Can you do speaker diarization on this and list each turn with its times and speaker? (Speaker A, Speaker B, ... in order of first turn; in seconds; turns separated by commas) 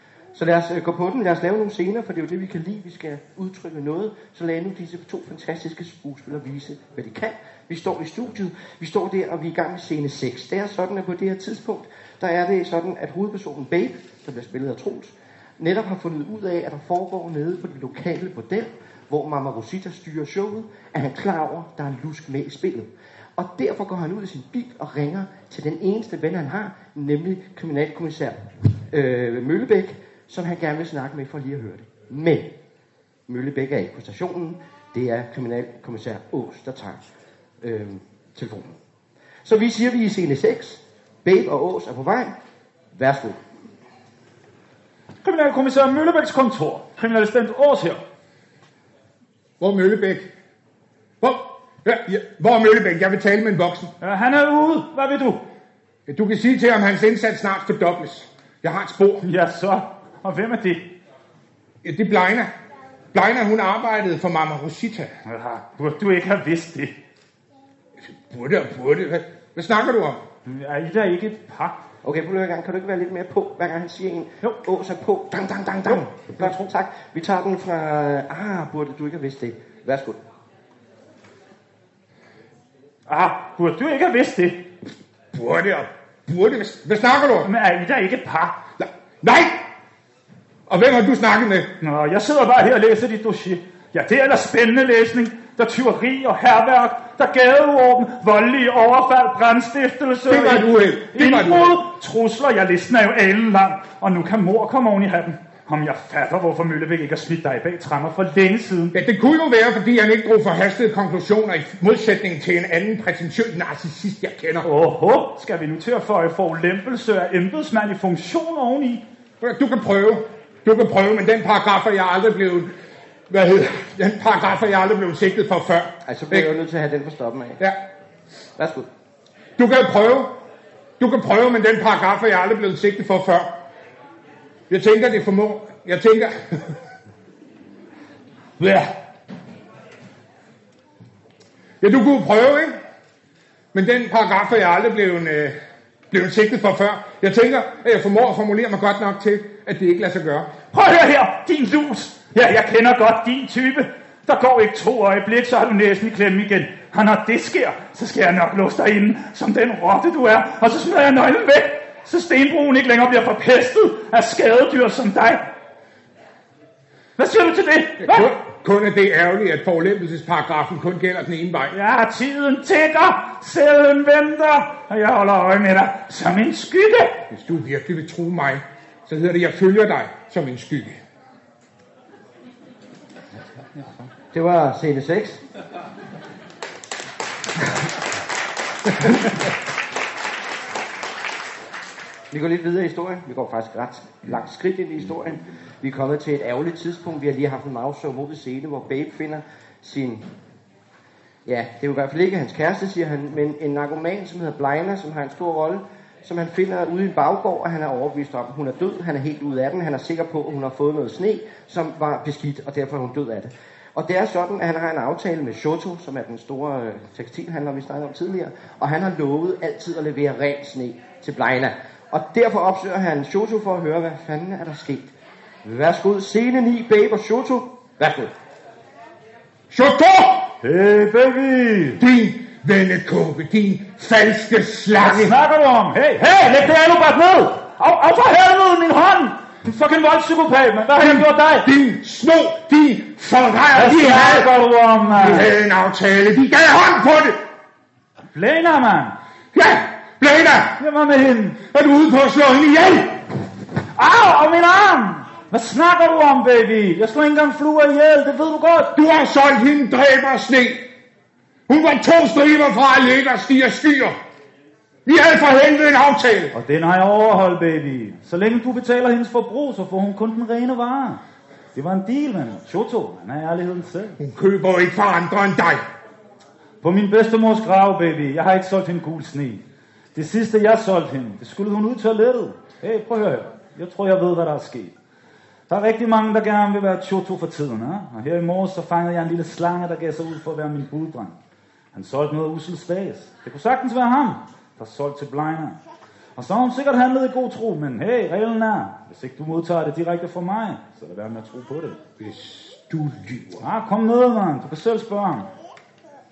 Speaker A: 0.3-32.5, Speaker A: 33.3-37.0, Speaker A: 37.6-38.8, Speaker A: 39.4-42.3, Speaker A: 43.0-43.4, Speaker B: 45.2-48.0, Speaker C: 49.6-50.3, Speaker C: 51.2-53.9, Speaker B: 54.0-55.4, Speaker C: 56.1-59.2, Speaker B: 59.2-60.9, Speaker C: 61.8-62.5, Speaker C: 63.1-65.1, Speaker B: 65.3-67.0, Speaker C: 68.0-70.2, Speaker B: 70.5-71.8, Speaker A: 72.0-80.2, Speaker B: 75.9-76.7, Speaker B: 83.1-84.7, Speaker C: 85.3-87.5, Speaker B: 87.4-88.5, Speaker C: 88.8-89.7, Speaker C: 90.7-91.7, Speaker B: 91.8-109.0, Speaker C: 100.3-101.8, Speaker C: 108.9-114.7, Speaker B: 114.6-119.0, Speaker C: 119.4-122.7, Speaker C: 123.3-126.5, Speaker A: 126.1-127.6, Speaker A: 128.6-128.9, Speaker C: 129.6-130.4, Speaker C: 131.0-133.5, Speaker C: 134.7-136.8, Speaker C: 138.6-138.9, Speaker C: 141.8-142.8, Speaker C: 143.7-145.6, Speaker C: 146.1-150.5, Speaker B: 150.7-165.5, Speaker B: 167.2-168.3, Speaker C: 168.0-171.8, Speaker B: 171.7-177.2, Speaker C: 177.3-181.0, Speaker A: 184.3-185.4, Speaker A: 192.3-200.2, Speaker A: 201.4-225.1, Speaker A: 225.6-228.3, Speaker C: 229.7-230.6, Speaker B: 230.6-232.0, Speaker C: 232.0-235.3, Speaker B: 235.0-241.7, Speaker C: 241.0-244.5, Speaker B: 243.8-245.5, Speaker C: 245.2-247.4, Speaker B: 248.3-249.2, Speaker C: 249.5-250.8, Speaker B: 250.8-251.6, Speaker C: 251.6-253.2, Speaker B: 253.9-258.9, Speaker C: 258.9-260.9, Speaker C: 261.7-264.1, Speaker C: 265.1-266.6, Speaker B: 266.5-271.2, Speaker B: 271.8-274.2, Speaker C: 274.2-275.8, Speaker B: 276.8-279.6, Speaker B: 280.1-284.9, Speaker B: 285.7-291.4, Speaker B: 291.9-295.8, Speaker B: 296.4-302.0, Speaker C: 302.2-303.7, Speaker B: 303.6-305.5